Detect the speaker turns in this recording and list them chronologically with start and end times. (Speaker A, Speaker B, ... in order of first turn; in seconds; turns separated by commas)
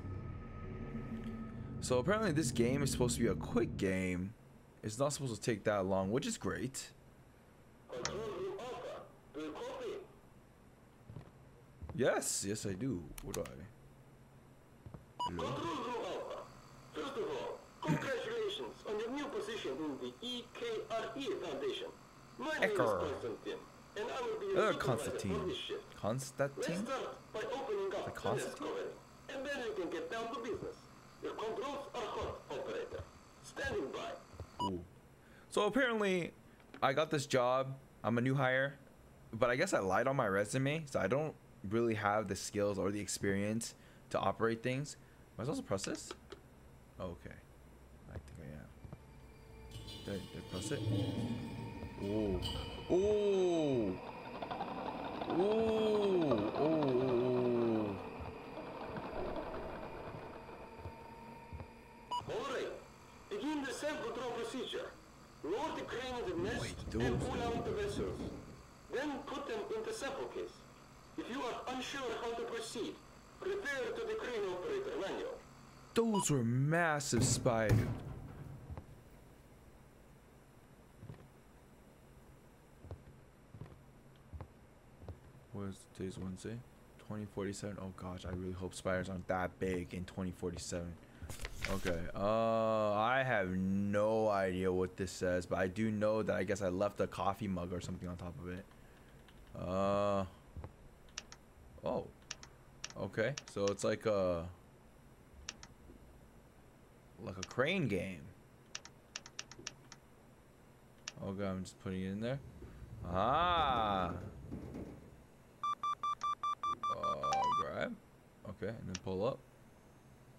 Speaker A: 1.8-6.9, Speaker B: 7.9-10.1, Speaker A: 8.0-8.3, Speaker A: 11.9-13.7, Speaker A: 15.2-15.6, Speaker B: 15.3-25.9, Speaker A: 22.6-23.2, Speaker A: 24.5-26.9, Speaker B: 26.6-34.2, Speaker A: 28.1-28.7, Speaker A: 34.6-34.9, Speaker A: 35.5-46.2, Speaker A: 47.0-47.4, Speaker A: 48.0-48.7, Speaker A: 50.0-50.9, Speaker A: 52.0-54.0, Speaker A: 55.2-58.0, Speaker B: 62.2-68.3, Speaker A: 66.4-67.5, Speaker B: 68.9-75.4, Speaker A: 75.9-77.9, Speaker A: 85.5-91.0, Speaker A: 91.7-98.7, Speaker A: 99.5-100.3, Speaker A: 101.8-102.1, Speaker A: 103.0-104.5, Speaker A: 107.2-108.3, Speaker A: 111.2-112.4, Speaker A: 113.0-114.3, Speaker A: 116.9-119.4